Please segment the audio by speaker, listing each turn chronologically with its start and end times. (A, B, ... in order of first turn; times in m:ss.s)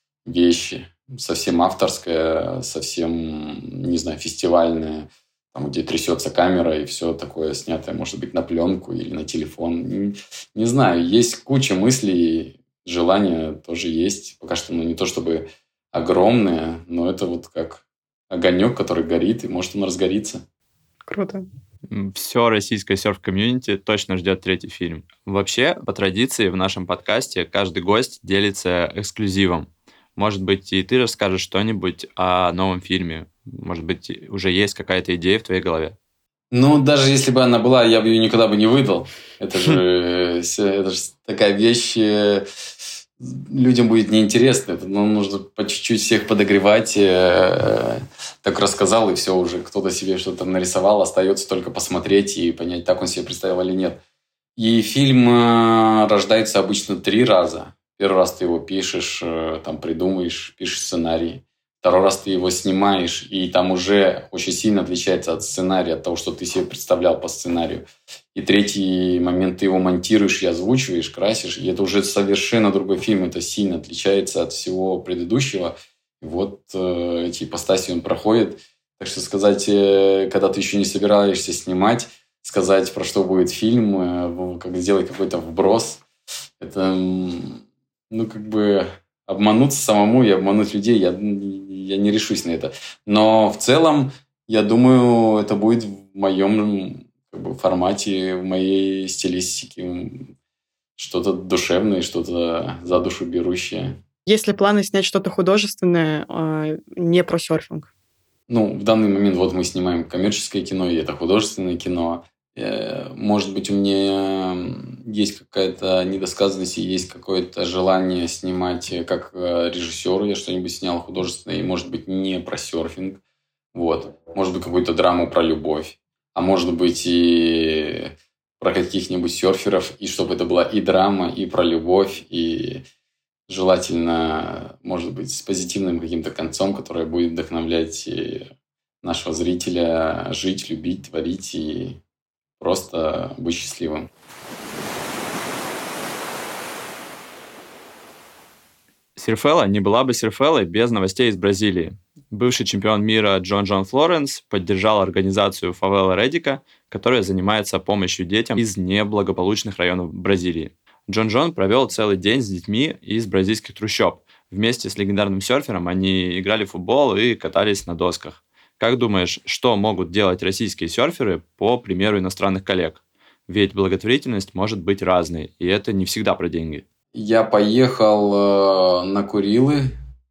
0:00.2-0:20.4 A
0:21.1-0:21.4 B
0:21.9-0:36.0 C
0:36.5-0:42.4 A
0:43.2-0:54.0 A
0:54.6-1:26.0 A
1:26.6-1:40.3 A
1:41.0-1:44.0 A
1:44.3-1:47.9 B
1:48.5-2:03.2 A
2:03.7-2:12.8 A
2:13.5-2:18.5 A
2:19.0-2:22.0 A
2:22.6-2:24.1 A
2:29.2-2:56.8 C
2:57.1-2:59.9 A